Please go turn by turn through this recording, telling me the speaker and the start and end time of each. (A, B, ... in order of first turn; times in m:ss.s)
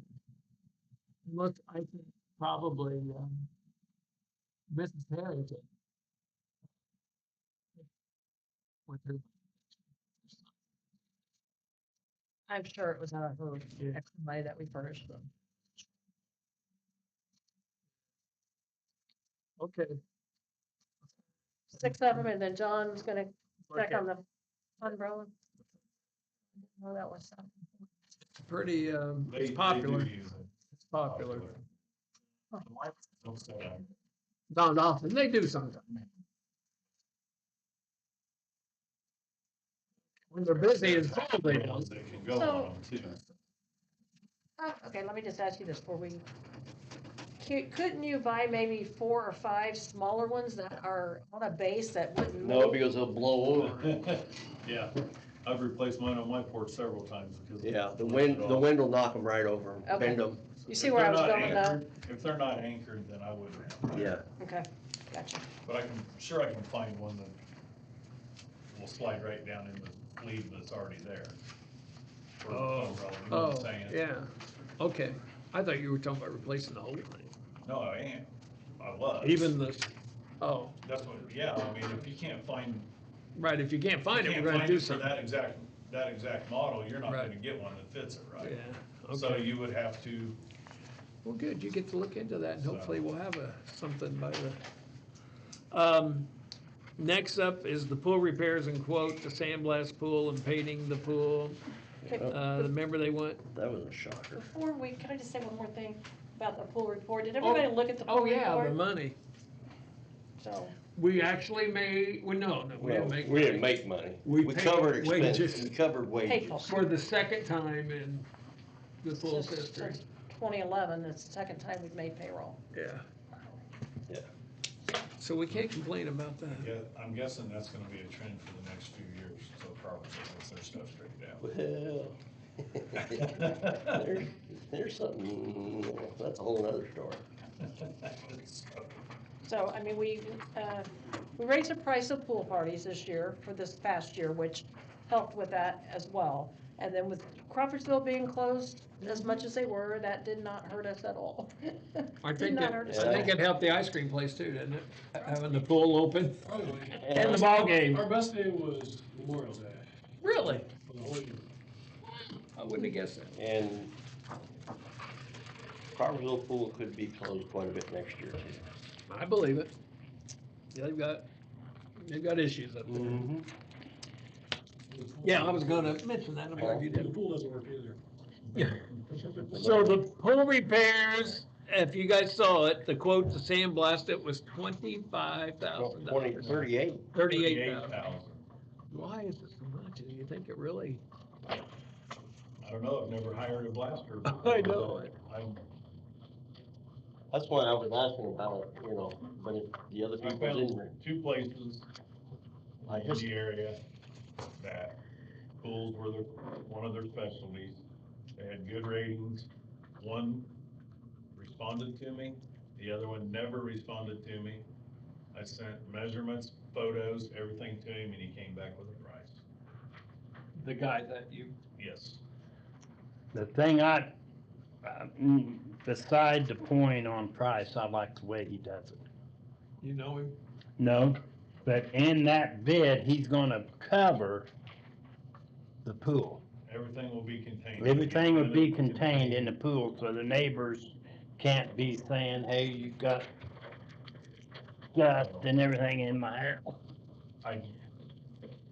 0:01.3-0:03.5 A
0:04.7-0:05.7 A
0:08.9-0:09.3 A
0:10.3-0:10.5 A
0:12.5-0:15.3 B
0:19.6-0:20.0 A
0:21.7-0:24.2 B
0:23.7-0:24.0 A
0:24.8-0:25.3 B
0:26.6-0:27.8 B
0:28.4-0:30.1 A
0:29.3-0:30.5 C
0:30.8-0:31.6 A
0:31.0-0:31.6 C
0:33.2-0:33.9 C
0:34.5-0:36.0 A
0:40.3-0:41.9 A
0:40.5-0:43.2 C
0:42.3-0:42.8 B
0:44.6-0:46.2 B
0:47.4-0:52.8 B
0:52.4-0:53.9 D
0:53.6-0:54.9 C
0:55.4-0:58.7 C
0:57.6-1:00.4 D
0:59.9-1:01.8 B
1:00.4-1:04.2 C
1:03.9-1:04.2 D
1:04.4-1:05.5 B
1:05.6-1:07.4 C
1:08.7-1:11.4 C
1:12.4-1:14.0 C
1:12.5-1:17.3 A
1:17.6-1:19.6 C
1:19.2-1:20.8 A
1:20.8-1:22.9 C
1:23.4-1:25.1 A
1:24.1-1:28.6 C
1:27.1-1:27.3 A
1:28.4-1:29.5 A
1:29.1-1:30.4 C
1:31.2-1:34.6 A
1:32.6-1:33.1 C
1:35.7-1:36.3 A
1:37.0-1:41.6 A
1:42.0-1:42.4 D
1:42.1-1:42.7 B
1:42.3-1:43.4 A
1:43.5-1:44.4 D
1:44.4-1:48.8 B
1:47.4-1:49.2 A
1:50.4-1:50.8 B
1:51.0-1:55.7 A
1:52.8-1:56.6 D
1:56.3-1:57.0 B
1:56.6-1:58.3 A
1:59.0-2:00.0 A
1:59.2-2:02.6 B
2:02.7-2:03.1 A
2:05.2-2:06.7 A
2:06.5-2:11.4 C
2:11.4-2:17.2 D
2:13.0-2:14.0 C
2:17.6-2:18.9 C
2:19.4-2:33.4 B
2:32.2-2:36.5 A
2:32.8-2:33.4 D
2:36.4-2:41.4 E
2:37.0-2:37.5 D
2:37.1-2:38.1 A
2:40.2-2:40.7 A
2:42.5-2:43.4 A
2:43.4-2:43.9 D
2:45.9-2:48.6 D
2:49.1-2:49.7 A
2:50.7-2:51.3 A
2:52.0-2:53.3 A
2:52.9-2:53.3 D
2:54.9-2:56.0 E
2:55.2-2:57.1 A
2:56.6-2:58.0 E
2:56.6-2:56.8 D
2:58.5-2:58.8 A
2:59.4-3:08.0 A
2:59.5-3:00.0 D
3:05.8-3:07.0 D
3:07.2-3:08.4 C
3:08.9-3:11.0 A
3:12.6-3:15.6 C
3:14.2-3:15.2 A
3:17.3-3:21.0 D
3:20.2-3:21.9 C
3:22.8-3:23.8 C
3:22.9-3:23.3 D
3:24.6-3:25.0 C
3:25.6-3:27.8 C
3:28.4-3:30.5 C
3:31.4-3:34.6 C
3:35.3-3:39.4 C
3:40.5-3:41.6 A
3:41.8-3:42.2 C
3:43.3-3:44.1 F
3:44.8-3:49.0 F
3:49.8-3:50.4 A
3:50.8-3:54.5 F
3:55.8-3:56.4 F
3:56.6-3:59.5 C
3:57.8-4:03.3 F
4:04.9-4:06.8 F
4:05.2-4:05.5 C
4:07.4-4:07.8 C